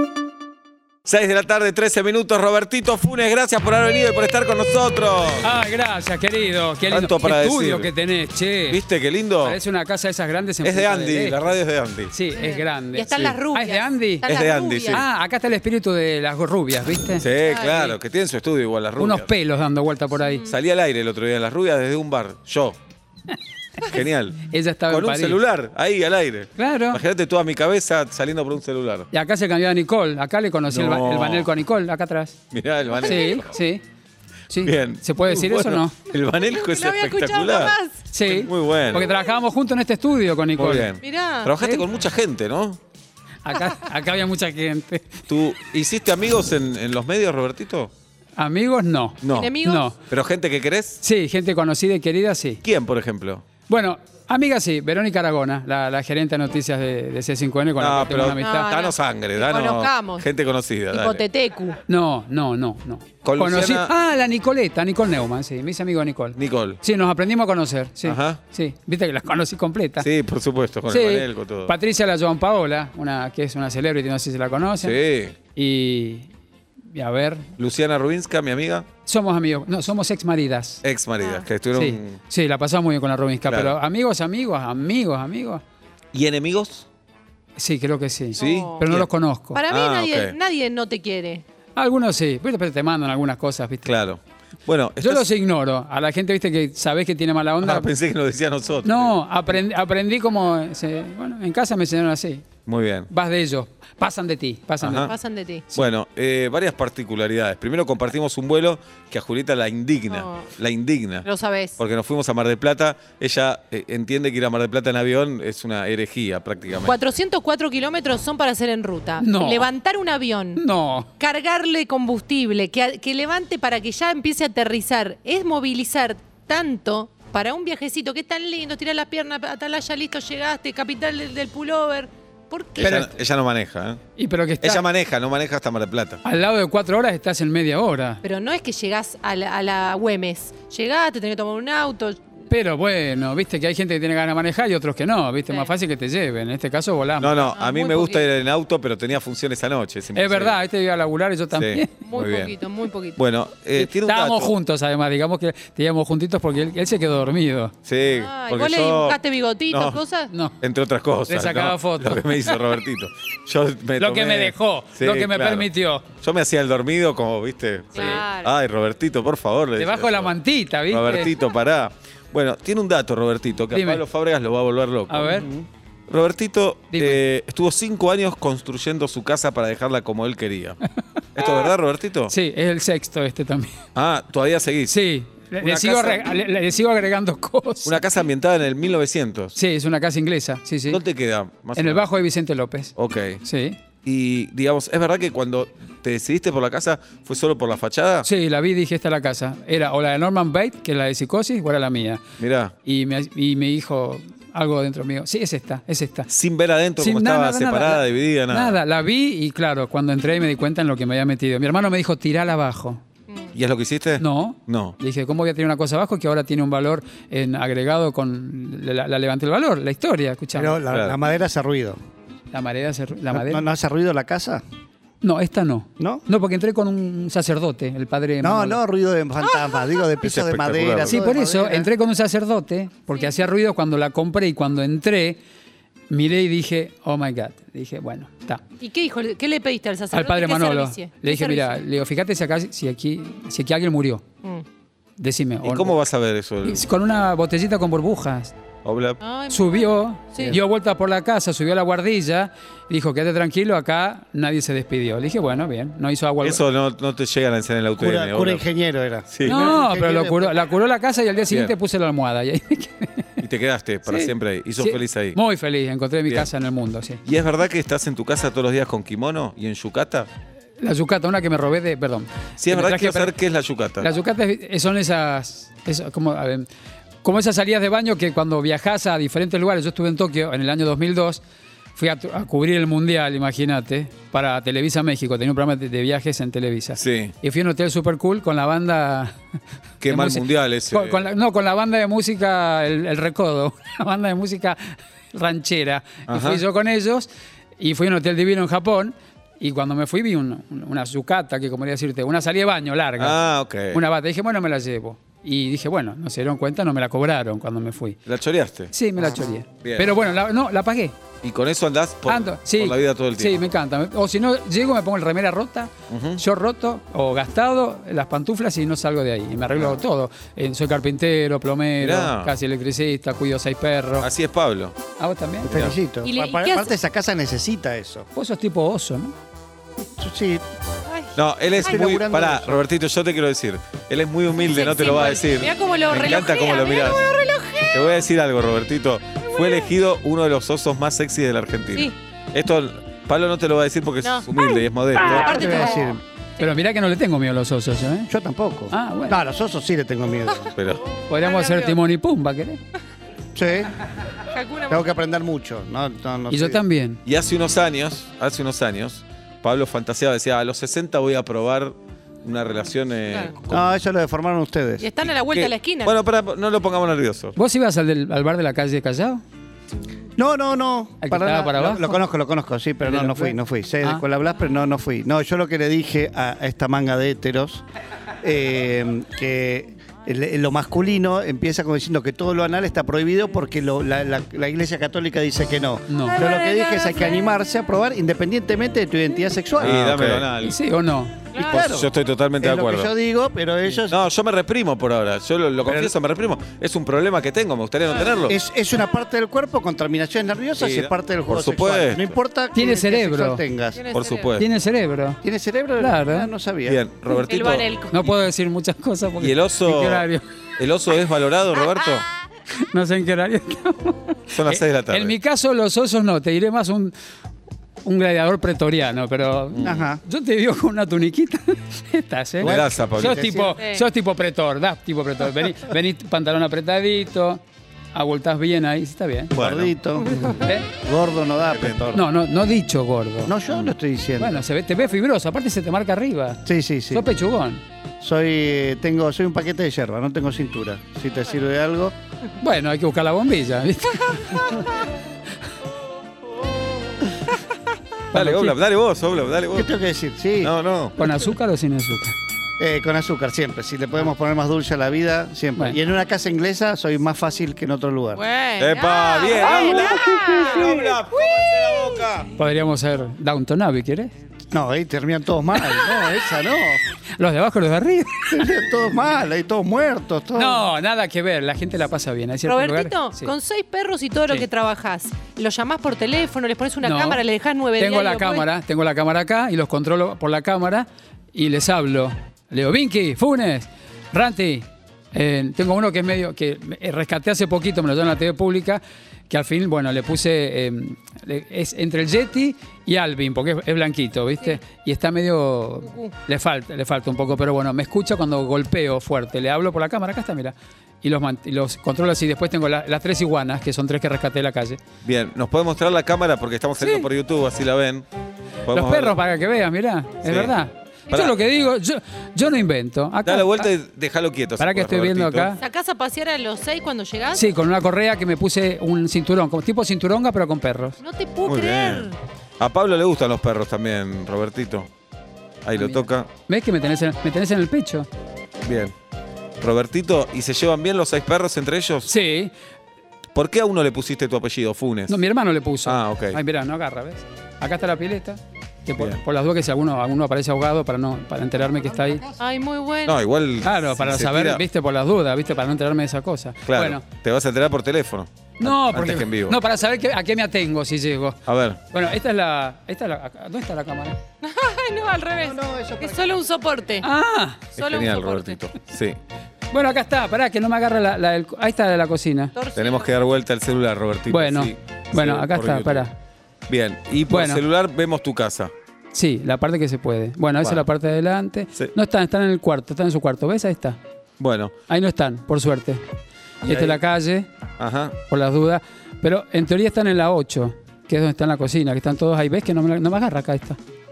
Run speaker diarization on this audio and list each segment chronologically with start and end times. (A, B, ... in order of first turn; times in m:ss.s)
0:01.0-0:05.5 A
0:05.4-0:08.8 B
0:06.9-0:07.9 A
0:08.7-0:09.6 A
0:09.4-0:11.5 B
0:10.6-0:12.1 A
0:12.1-0:14.3 B
0:12.4-0:15.0 C
0:14.2-0:15.0 A
0:14.9-0:17.2 B
0:17.2-0:19.3 A
0:17.4-0:18.0 C
0:19.0-0:20.5 B
0:20.2-0:20.5 C
0:20.5-0:22.8 A
0:23.8-0:29.1 A
0:24.4-0:25.4 B
0:26.6-0:27.0 B
0:29.1-0:32.4 B
0:30.7-0:31.5 A
0:32.5-0:33.5 A
0:32.9-0:33.4 C
0:33.0-0:33.8 B
0:34.5-0:35.9 B
0:34.6-0:39.1 A
0:36.3-0:38.0 C
0:38.1-0:40.9 B
0:40.6-0:42.8 A
0:41.0-0:41.5 C
0:41.6-0:41.8 B
0:43.4-0:45.3 B
0:45.3-0:47.9 A
0:48.4-0:50.0 B
0:49.2-0:51.0 A
0:49.3-0:49.9 C
0:51.0-0:52.6 B
0:52.6-0:53.4 A
0:53.7-0:58.7 B
0:57.8-1:01.2 A
0:58.4-1:00.3 C
1:00.9-1:01.8 C
1:01.9-1:10.1 B
1:03.2-1:03.9 A
1:06.4-1:06.8 A
1:08.0-1:08.4 A
1:10.0-1:11.7 A
1:10.9-1:15.0 B
1:14.8-1:15.4 A
1:15.5-1:16.3 B
1:16.9-1:17.5 B
1:17.6-1:18.9 A
1:19.0-1:20.8 B
1:20.8-1:22.2 A
1:21.2-1:21.5 C
1:21.7-1:25.6 B
1:23.4-1:23.8 A
1:26.1-1:26.9 A
1:27.6-1:29.6 B
1:28.4-1:28.8 C
1:28.4-1:29.1 A
1:29.5-1:31.4 C
1:29.7-1:30.3 A
1:31.8-1:34.0 B
1:33.8-1:35.2 A
1:35.0-1:37.9 B
1:37.6-1:39.2 A
1:38.8-1:42.5 B
1:42.6-1:43.1 A
1:43.1-1:45.1 B
1:44.8-1:45.1 A
1:45.0-1:45.6 C
1:45.7-1:56.9 A
1:50.1-1:50.5 C
1:51.2-1:51.8 C
1:56.8-2:00.6 C
1:59.2-1:59.7 B
2:00.6-2:01.1 B
2:01.2-2:13.1 C
2:12.8-2:14.0 A
2:12.8-2:13.1 B
2:14.2-2:14.8 B
2:14.6-2:16.2 A
2:16.2-2:18.2 B
2:18.2-2:22.2 C
2:22.5-2:27.6 B
2:27.2-2:30.6 A
2:27.5-2:28.3 C
2:30.1-2:31.9 B
2:31.5-2:32.5 A
2:32.0-2:33.2 C
2:33.2-2:34.5 A
2:33.8-2:37.7 B
2:37.8-2:39.2 A
2:38.0-2:40.3 C
2:39.7-2:40.0 A
2:40.3-2:40.6 B
2:40.6-2:45.7 A
2:41.3-2:42.6 B
2:44.0-2:46.0 B
2:46.2-2:50.3 A
2:47.9-2:48.5 C
2:47.9-2:48.2 B
2:49.8-2:51.3 B
2:50.9-2:55.4 A
2:53.7-2:54.0 B
2:55.1-2:55.5 B
2:56.1-3:00.8 A
2:56.9-2:57.2 B
3:01.4-3:02.3 A
3:02.3-3:03.8 B
3:03.9-3:05.0 A
3:04.9-3:08.0 B
3:05.6-3:06.2 A
3:07.8-3:09.6 A
3:09.5-3:11.0 B
3:10.9-3:12.0 A
3:11.7-3:13.8 B
3:13.0-3:13.4 A
3:14.0-3:18.3 A
3:18.2-3:22.2 B
3:22.4-3:22.7 A
3:22.8-3:26.3 B
3:26.3-3:28.8 A
3:27.0-3:33.0 B
3:33.5-3:35.0 A
3:34.2-3:40.8 B
3:40.5-3:42.0 D
3:40.9-3:41.2 A
3:42.5-3:43.6 B
3:43.3-3:44.6 D
3:45.2-3:48.8 B
3:46.0-3:46.2 D
3:48.4-3:51.9 D
3:49.5-3:49.8 C
3:50.2-3:51.2 A
3:51.0-3:55.4 B
3:53.1-3:53.4 C
3:56.1-3:58.6 B
3:58.8-4:01.8 C
4:00.1-4:04.2 B
4:05.2-4:06.0 B
4:05.6-4:06.8 A
4:06.6-4:08.5 B
4:08.8-4:09.2 A
4:09.2-4:10.6 C
4:09.5-4:16.6 B
4:16.4-4:18.6 A
4:18.0-4:20.5 D
4:19.3-4:19.7 A
4:19.4-4:23.4 B
4:23.4-4:25.4 A
4:24.0-4:27.2 B
4:27.2-4:30.3 A
4:30.8-4:33.3 B
4:32.6-4:34.1 A
4:34.0-4:36.7 B
4:37.2-4:41.4 B
4:42.0-4:49.3 B
4:47.0-4:47.3 A
4:50.0-4:51.2 A
4:50.0-5:08.2 B
4:56.3-4:56.6 A
5:03.2-5:04.0 A
5:08.2-5:08.9 A
5:08.9-5:11.2 B
5:09.8-5:10.1 A
5:11.4-5:13.6 A
5:12.2-5:24.3 B
5:16.1-5:16.4 A
5:22.0-5:22.5 A
5:24.2-5:25.0 A
5:25.2-5:25.7 B
5:25.6-5:25.9 A
5:25.6-5:28.3 D
5:26.2-5:26.9 C
5:28.3-5:29.3 B
5:30.2-5:30.6 D
5:31.1-5:32.0 C
5:31.4-5:37.2 A
5:31.8-5:32.8 D
5:34.7-5:38.2 C
5:37.9-5:45.5 A
5:39.4-5:39.9 C
5:44.2-5:46.1 C
5:45.3-5:46.2 D
5:46.6-5:48.3 B
5:48.3-5:50.7 D
5:48.9-5:49.4 B
5:50.8-5:51.0 A
5:51.3-5:52.8 B
5:51.4-5:52.0 C
5:53.5-5:53.9 D
5:54.5-5:55.0 C
5:54.9-5:56.8 D
5:56.5-5:57.2 B
5:57.2-6:03.8 A
6:03.7-6:05.1 D
6:05.0-6:06.1 C
6:05.2-6:07.6 A
6:07.6-6:09.4 B
6:10.4-6:17.8 D
6:11.2-6:12.2 B
6:13.0-6:14.2 B
6:18.4-6:30.5 D
6:26.1-6:26.4 B
6:26.3-6:27.4 C
6:29.8-6:30.8 A
6:30.6-6:31.5 B
6:31.5-6:31.9 C
6:31.6-6:34.2 D
6:31.6-6:33.1 A
6:34.1-6:38.6 A
6:35.8-6:36.1 D
6:38.5-6:44.0 D
6:40.8-6:42.4 A
6:42.7-6:43.6 B
6:43.9-6:44.6 C
6:44.1-6:44.7 A
6:44.6-6:45.4 B
6:45.4-6:47.0 D
6:46.0-6:46.5 B
6:46.8-6:48.3 A
6:47.3-6:48.2 C
6:48.1-6:50.4 B
6:49.4-6:50.2 A
6:50.8-6:52.2 A
6:52.8-6:57.1 B
6:54.5-6:55.3 A
6:58.0-7:07.6 B
6:59.8-7:00.2 D
7:02.6-7:03.8 D
7:02.6-7:03.5 A
7:08.1-7:09.5 B
7:09.5-7:09.9 A
7:09.5-7:12.2 D
7:10.5-7:10.9 B
7:11.7-7:12.2 A
7:12.1-7:13.5 B
7:13.4-7:14.6 D
7:14.4-7:17.8 B
7:16.6-7:17.3 D
7:18.2-7:22.1 D
7:22.6-7:24.9 B
7:28.3-7:28.8 B
7:28.3-7:29.9 A
7:29.7-7:30.7 D
7:30.6-7:31.2 A
7:31.2-7:32.3 B
7:32.8-7:38.4 D
7:38.3-7:42.2 C
7:38.8-7:42.5 A
7:40.1-7:40.4 D
7:42.6-7:44.3 B
7:44.7-7:47.0 D
7:47.4-7:48.6 B
7:48.5-7:50.8 D
7:50.5-7:53.5 B
7:52.6-7:58.6 C
7:57.0-7:57.4 B
7:58.0-8:25.0 B
8:25.2-8:28.2 A
8:27.0-8:27.3 B
8:28.8-8:29.4 A
8:28.9-8:33.9 B
8:30.4-8:30.8 A
8:31.3-8:31.6 A
8:33.4-8:35.7 A
8:34.8-8:35.8 B
8:35.8-8:37.7 C
8:37.5-8:41.2 B
8:41.2-8:42.4 C
8:41.6-8:45.1 A
8:45.8-8:46.5 A
8:46.0-8:48.3 B
8:48.8-8:49.1 A
8:49.8-8:52.3 A
8:52.3-8:52.7 B
8:53.5-8:55.4 A
8:55.3-9:02.4 B
8:56.0-8:56.6 A
9:02.6-9:03.4 C
9:03.2-9:04.8 A
9:03.8-9:07.2 B
9:06.9-9:09.8 A
9:08.8-9:14.4 B
9:11.7-9:12.0 A
9:14.6-9:17.3 C
9:15.6-9:16.6 D
9:17.2-9:17.9 B
9:18.0-9:19.4 A
9:18.0-9:18.8 C
9:19.9-9:22.7 B
9:22.7-9:23.3 C
9:22.9-9:26.3 A
9:24.5-9:26.3 B
9:26.9-9:28.9 A
9:27.5-9:27.8 B
9:29.3-9:34.2 B
9:34.6-9:34.9 A
9:35.1-9:36.2 B
9:36.8-9:37.7 B
9:36.8-9:37.2 A
9:38.0-9:38.4 A
9:38.5-9:44.0 B